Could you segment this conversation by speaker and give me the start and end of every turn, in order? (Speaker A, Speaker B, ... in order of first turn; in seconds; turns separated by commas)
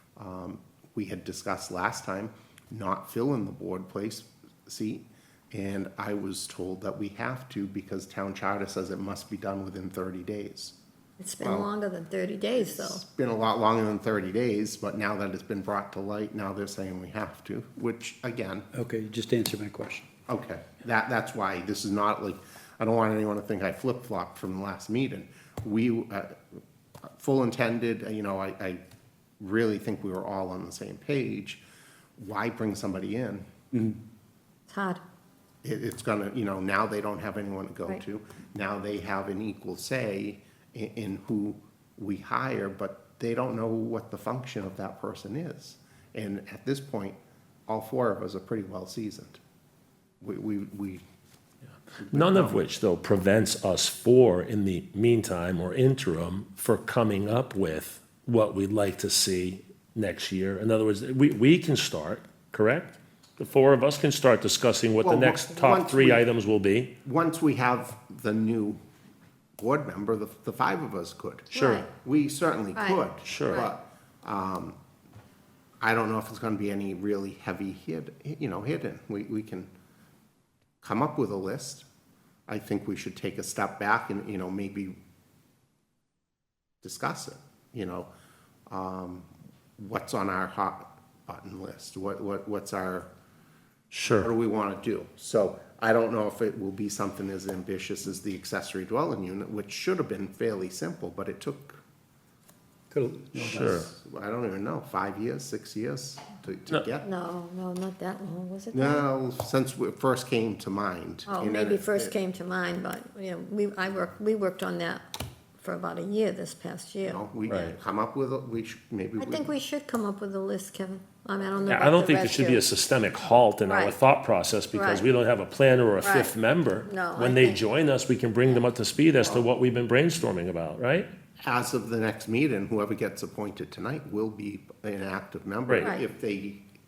Speaker A: 0.2-10.8, Speaker B: 11.2-13.0, Speaker A: 11.4-11.7, Speaker A: 12.6-18.7, Speaker C: 18.7-20.1, Speaker A: 20.3-26.4, Speaker A: 27.2-28.8, Speaker A: 29.4-31.6, Speaker A: 32.2-33.5, Speaker B: 34.7-35.0, Speaker A: 35.6-49.4, Speaker A: 50.2-51.0, Speaker A: 52.0-52.6, Speaker D: 52.1-66.9, Speaker A: 65.0-66.2, Speaker A: 67.0-68.8, Speaker A: 69.6-74.8, Speaker D: 71.5-71.8, Speaker B: 71.5-71.9, Speaker B: 72.8-73.7, Speaker D: 73.2-73.7, Speaker A: 75.8-79.7, Speaker A: 80.8-81.8, Speaker A: 82.5-85.0, Speaker A: 86.8-88.1, Speaker A: 88.7-93.1, Speaker D: 93.9-94.3, Speaker A: 94.2-101.8, Speaker C: 102.9-103.8, Speaker A: 103.4-107.1, Speaker D: 103.5-103.9, Speaker B: 107.0-109.1, Speaker A: 108.7-112.2, Speaker B: 111.3-117.7, Speaker A: 117.0-119.5, Speaker B: 119.2-122.7, Speaker D: 121.7-131.1, Speaker B: 123.7-123.9, Speaker B: 124.7-125.1, Speaker B: 126.0-126.3, Speaker B: 126.8-127.6, Speaker A: 131.4-136.7